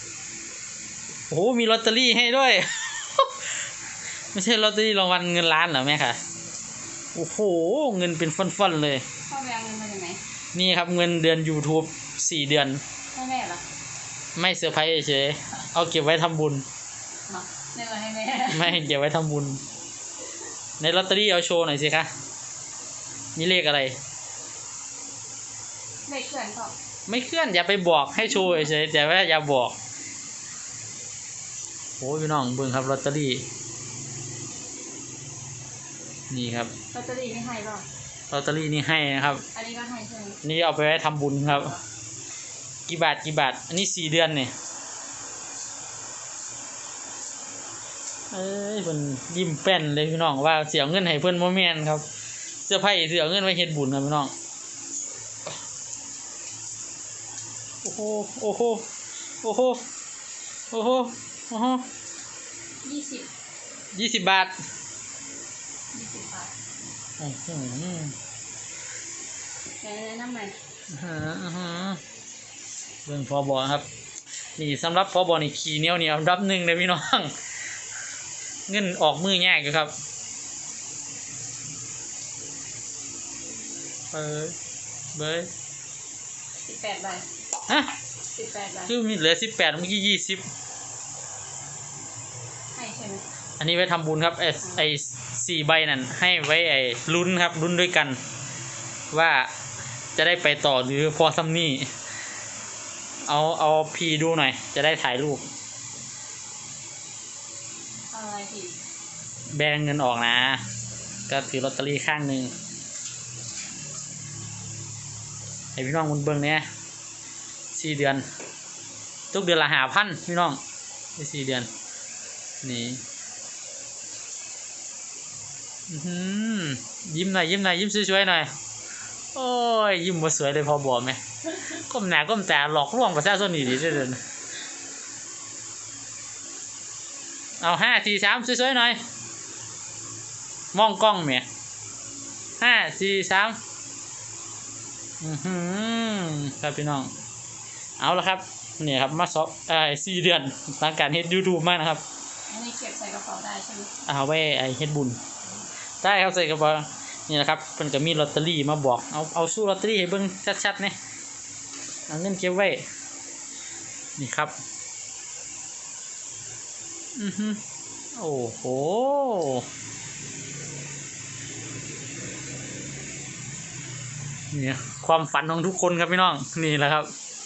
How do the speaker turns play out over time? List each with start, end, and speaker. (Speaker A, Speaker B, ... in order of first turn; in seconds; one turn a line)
Speaker A: 1.3-3.5
Speaker A: 4.3-6.2
Speaker A: 7.1-9.1
Speaker B: 9.3-10.2
Speaker A: 10.5-12.8
Speaker B: 13.1-13.6
Speaker A: 14.3-16.7
Speaker B: 17.3-18.8
Speaker A: 18.5-19.6
Speaker A: 20.8-22.1
Speaker A: 23.4-24.0
Speaker B: 26.1-26.7
Speaker A: 27.1-29.8
Speaker A: 32.0-33.5
Speaker A: 36.3-36.7
Speaker B: 36.9-37.9
Speaker A: 38.3-39.5
Speaker B: 39.5-40.4
Speaker A: 40.4-41.8
Speaker A: 42.9-44.5
Speaker A: 48.3-52.1
Speaker A: 52.7-54.3
Speaker A: 57.8-58.9
Speaker A: 59.4-59.8
Speaker A: 60.7-61.9
Speaker B: 62.8-63.3
Speaker A: 63.9-64.6
Speaker B: 65.9-66.5
Speaker A: 67.2-68.2
Speaker B: 69.8-70.5
Speaker A: 70.9-72.0
Speaker A: 73.0-73.9
Speaker A: 74.6-77.4
Speaker A: 78.7-79.9
Speaker A: 84.1-84.6
Speaker A: 85.1-85.5
Speaker B: 86.7-87.3
Speaker A: 87.7-87.9
Speaker B: 88.3-88.9
Speaker A: 88.9-90.5
Speaker B: 92.7-93.2
Speaker A: 93.6-98.2
Speaker A: 99.1-99.5
Speaker A: 100.2-101.9
Speaker A: 103.2-105.5
Speaker B: 108.1-108.8
Speaker A: 109.5-110.6
Speaker A: 111.3-112.5
Speaker A: 115.8-116.7
Speaker A: 117.7-118.2
Speaker A: 119.3-120.6
Speaker A: 121.2-121.7
Speaker A: 122.6-123.0
Speaker A: 125.9-128.5
Speaker A: 129.3-134.2
Speaker A: 137.6-139.0
Speaker A: 140.7-141.5
Speaker A: 142.6-143.6
Speaker A: 145.2-147.1
Speaker A: 148.0-152.0
Speaker B: 152.5-153.9
Speaker A: 154.1-155.2
Speaker A: 156.0-161.0
Speaker A: 162.1-162.9
Speaker A: 164.2-164.6
Speaker A: 167.2-167.6
Speaker A: 168.1-169.7
Speaker A: 174.5-177.1